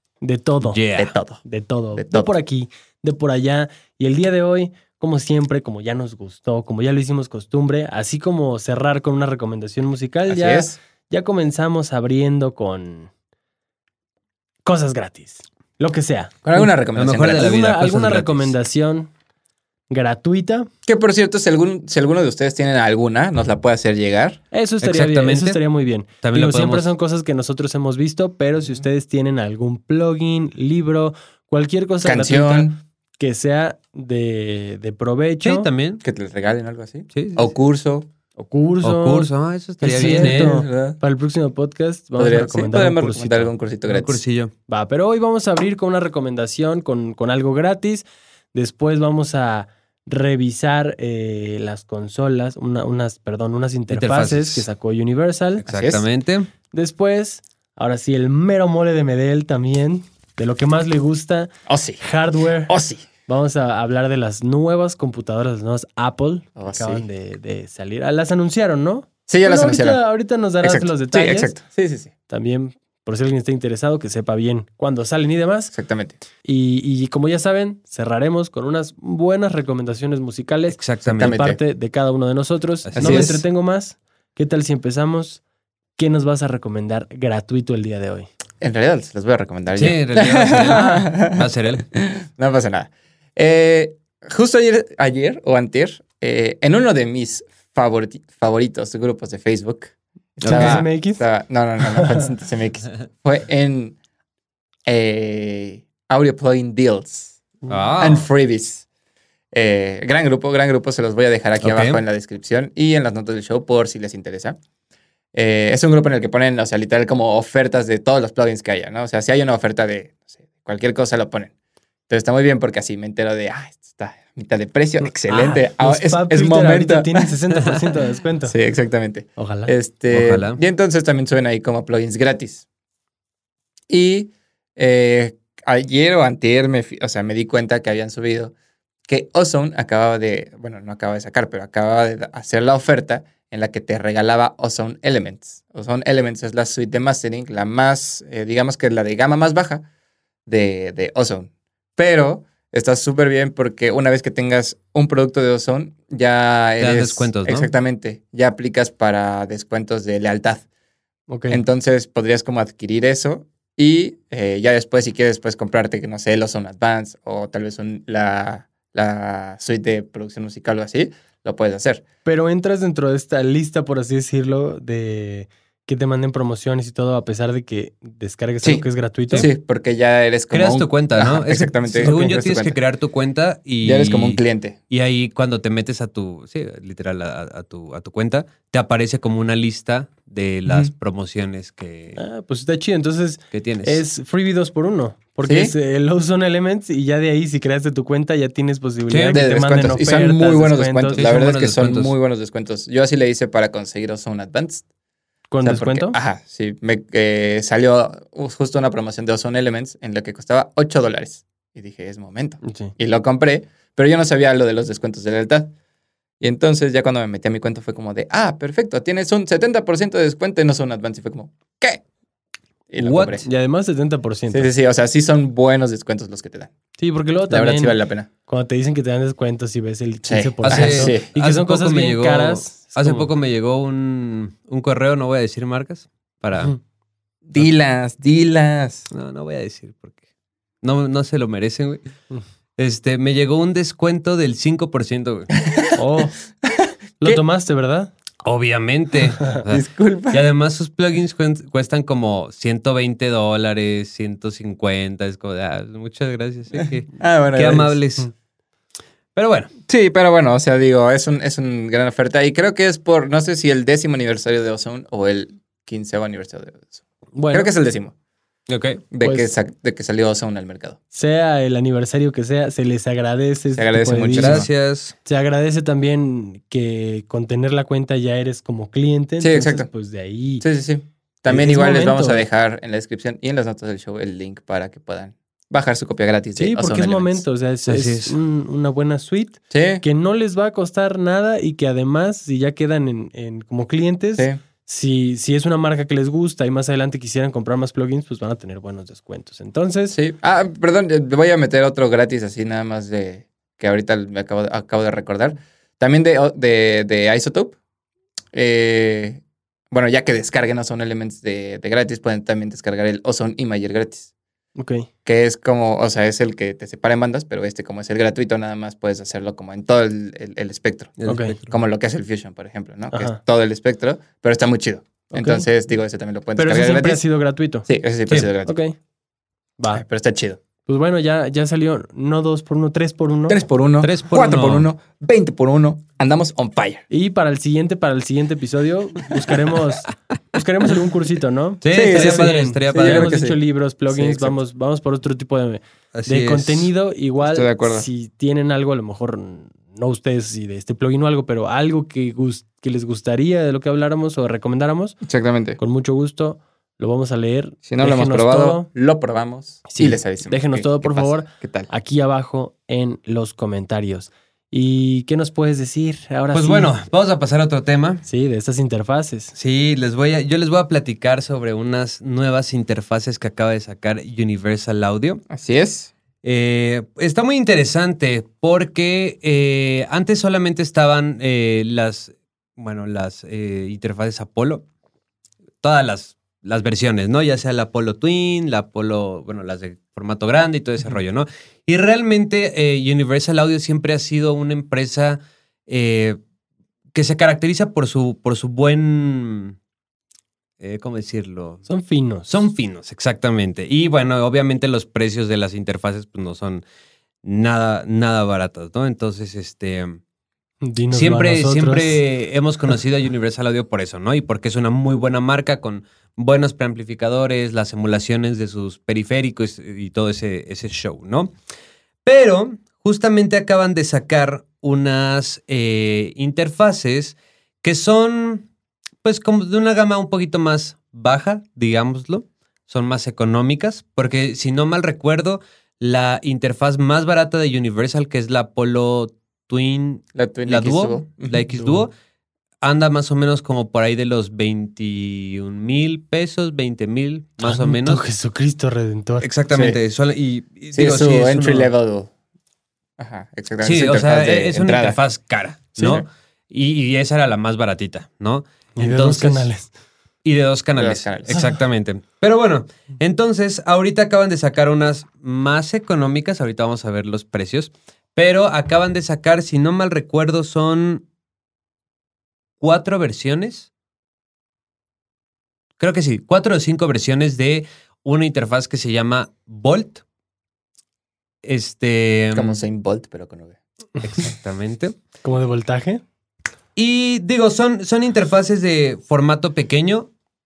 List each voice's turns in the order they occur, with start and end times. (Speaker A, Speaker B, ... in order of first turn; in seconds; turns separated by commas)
Speaker A: 0.2-0.8, Speaker B: 0.6-1.1, Speaker C: 1.0-1.4, Speaker A: 1.4-13.1, Speaker C: 1.9-2.3, Speaker C: 10.3-10.8, Speaker A: 14.7-16.7, Speaker C: 16.4-17.5, Speaker B: 17.0-18.5, Speaker A: 17.3-19.1, Speaker A: 19.9-20.7, Speaker C: 20.9-24.4, Speaker A: 24.5-35.7, Speaker B: 24.8-25.6, Speaker B: 26.2-26.9, Speaker C: 32.0-32.8, Speaker B: 35.4-36.0, Speaker C: 36.0-38.1, Speaker B: 37.1-37.5, Speaker A: 38.4-39.3, Speaker B: 38.8-40.6, Speaker C: 39.8-41.0, Speaker A: 39.8-43.5, Speaker C: 42.2-44.2, Speaker B: 43.9-44.5, Speaker A: 44.7-55.6, Speaker B: 53.9-54.7, Speaker C: 55.6-56.0, Speaker B: 55.6-56.5, Speaker A: 56.7-61.5, Speaker C: 61.7-62.0, Speaker A: 62.0-62.8, Speaker C: 62.7-63.1, Speaker A: 63.3-71.5, Speaker C: 66.6-67.0, Speaker C: 69.3-70.0, Speaker C: 70.6-72.1, Speaker A: 72.3-75.7, Speaker C: 75.7-76.2, Speaker A: 76.5-85.4, Speaker B: 80.7-81.4, Speaker C: 81.2-81.6, Speaker B: 82.8-83.4, Speaker C: 83.0-83.4, Speaker A: 86.0-88.3, Speaker C: 88.6-104.0, Speaker B: 89.8-91.9, Speaker A: 90.7-91.1, Speaker B: 100.4-100.8, Speaker A: 100.5-101.3, Speaker A: 101.8-102.3, Speaker C: 104.9-107.4, Speaker B: 107.7-108.3, Speaker C: 108.0-108.9, Speaker C: 109.5-114.6, Speaker B: 111.6-112.0, Speaker C: 115.3-121.5, Speaker C: 122.1-127.3, Speaker A: 125.0-128.6, Speaker C: 128.5-132.7, Speaker A: 129.4-129.7, Speaker B: 130.1-130.6, Speaker C: 133.9-138.5, Speaker C: 139.1-149.8, Speaker C: 150.5-160.7, Speaker B: 156.8-157.7, Speaker A: 161.3-161.6, Speaker C: 161.5-172.0, Speaker A: 172.3-179.5, Speaker C: 178.6-182.8, Speaker B: 180.5-192.2, Speaker A: 181.9-182.3, Speaker C: 183.8-184.8, Speaker C: 190.7-190.9, Speaker A: 192.2-201.3, Speaker B: 193.5-194.0, Speaker C: 195.4-195.7, Speaker B: 199.1-199.4, Speaker C: 199.3-204.8, Speaker B: 201.2-202.1, Speaker A: 205.5-206.2, Speaker C: 205.6-215.7, Speaker A: 212.6-212.9, Speaker C: 216.4-222.0, Speaker C: 222.9-223.5, Speaker B: 223.0-223.4, Speaker A: 223.2-224.7, Speaker C: 224.5-226.7, Speaker A: 227.0-233.3, Speaker C: 227.5-228.3, Speaker C: 230.2-231.2, Speaker B: 230.7-236.7, Speaker C: 237.5-239.1, Speaker B: 239.1-240.2, Speaker B: 240.8-242.1, Speaker B: 242.8-245.5, Speaker C: 245.6-246.0, Speaker A: 245.9-246.3, Speaker C: 246.7-247.4, Speaker A: 247.2-248.1, Speaker B: 248.4-258.3, Speaker C: 249.7-250.4, Speaker C: 257.1-258.0, Speaker B: 259.4-259.7, Speaker C: 259.9-267.0, Speaker A: 267.4-267.7, Speaker C: 267.5-268.1, Speaker B: 268.7-269.0, Speaker C: 269.1-271.0, Speaker A: 269.2-269.5, Speaker A: 271.1-274.7, Speaker C: 273.8-274.7, Speaker B: 274.4-275.1, Speaker A: 275.2-280.6, Speaker C: 279.4-279.9, Speaker C: 280.6-287.4, Speaker A: 281.5-282.4, Speaker A: 286.6-300.2, Speaker B: 287.9-288.4, Speaker C: 289.7-290.0, Speaker C: 300.1-307.8, Speaker C: 308.5-314.3, Speaker A: 314.8-315.1, Speaker C: 315.2-327.2, Speaker B: 321.2-321.7, Speaker A: 321.3-321.6, Speaker A: 323.1-323.4, Speaker A: 325.3-325.7, Speaker A: 326.6-327.9, Speaker C: 327.9-328.8, Speaker A: 328.7-329.0, Speaker A: 329.8-330.0, Speaker C: 329.9-330.6, Speaker A: 330.9-333.6, Speaker C: 333.5-337.1, Speaker B: 334.0-334.9, Speaker A: 337.1-355.2, Speaker B: 341.8-343.3, Speaker C: 341.9-343.6, Speaker C: 344.1-344.6, Speaker B: 346.1-346.9, Speaker C: 347.4-348.1, Speaker C: 355.2-355.8, Speaker A: 355.8-358.9, Speaker C: 357.9-361.9, Speaker A: 359.9-366.9, Speaker B: 366.5-368.2, Speaker A: 368.3-369.5, Speaker B: 369.6-375.4, Speaker C: 375.5-376.1, Speaker B: 376.4-384.9, Speaker B: 385.8-396.4, Speaker B: 397.1-399.8, Speaker B: 400.8-401.9, Speaker A: 401.9-402.6, Speaker B: 402.5-406.8, Speaker B: 407.4-410.2, Speaker A: 410.8-412.2, Speaker B: 411.1-421.5, Speaker B: 422.2-428.7, Speaker B: 429.2-442.1, Speaker C: 440.4-441.6, Speaker A: 441.7-442.1, Speaker B: 442.8-448.2, Speaker A: 447.6-449.5, Speaker B: 449.4-451.9, Speaker C: 449.7-450.0, Speaker C: 450.9-452.3, Speaker C: 453.2-455.2, Speaker B: 453.8-459.7, Speaker C: 456.0-456.2, Speaker A: 459.0-459.9, Speaker B: 460.4-471.2, Speaker C: 461.0-461.6, Speaker B: 472.8-473.9, Speaker B: 476.0-480.2, Speaker B: 481.6-482.8, Speaker C: 482.5-483.8, Speaker B: 484.2-485.1, Speaker A: 485.4-486.2, Speaker B: 487.0-490.3